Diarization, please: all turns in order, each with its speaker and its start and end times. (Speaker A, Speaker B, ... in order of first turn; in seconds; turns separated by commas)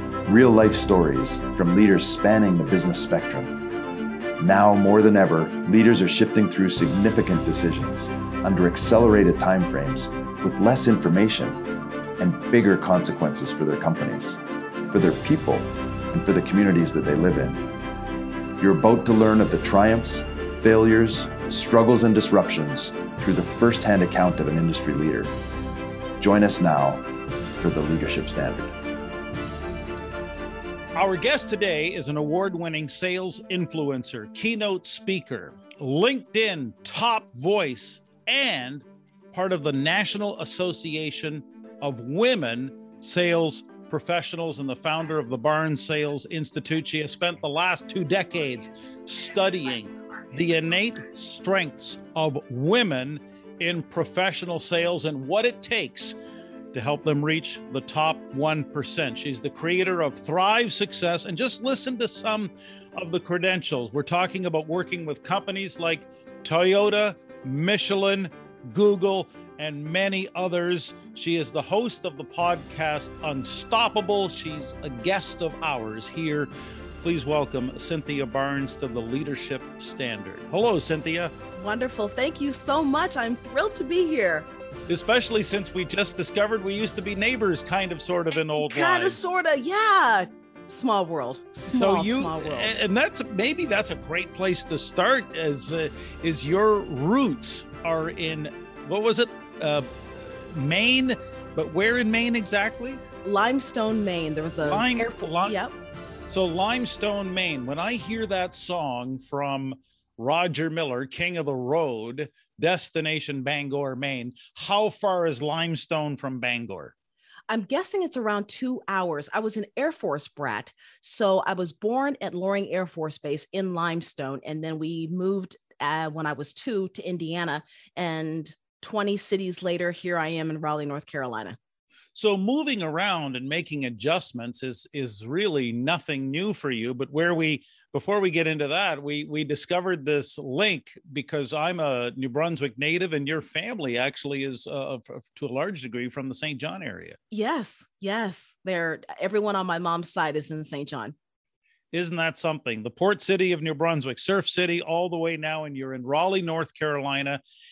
Speaker A: 0.2-3.5, Speaker A: 4.4-11.6, Speaker A: 12.2-17.6, Speaker A: 18.6-25.3, Speaker A: 26.2-27.0, Speaker A: 27.6-28.7, Speaker B: 30.9-56.1, Speaker B: 56.7-76.5, Speaker B: 77.0-81.3, Speaker C: 81.5-84.5, Speaker B: 84.9-89.3, Speaker C: 88.5-92.7, Speaker B: 91.7-103.0, Speaker C: 103.2-105.7, Speaker B: 104.6-105.5, Speaker B: 106.3-116.9, Speaker C: 117.5-131.6, Speaker B: 132.1-147.2, Speaker C: 147.3-151.1, Speaker B: 151.9-157.4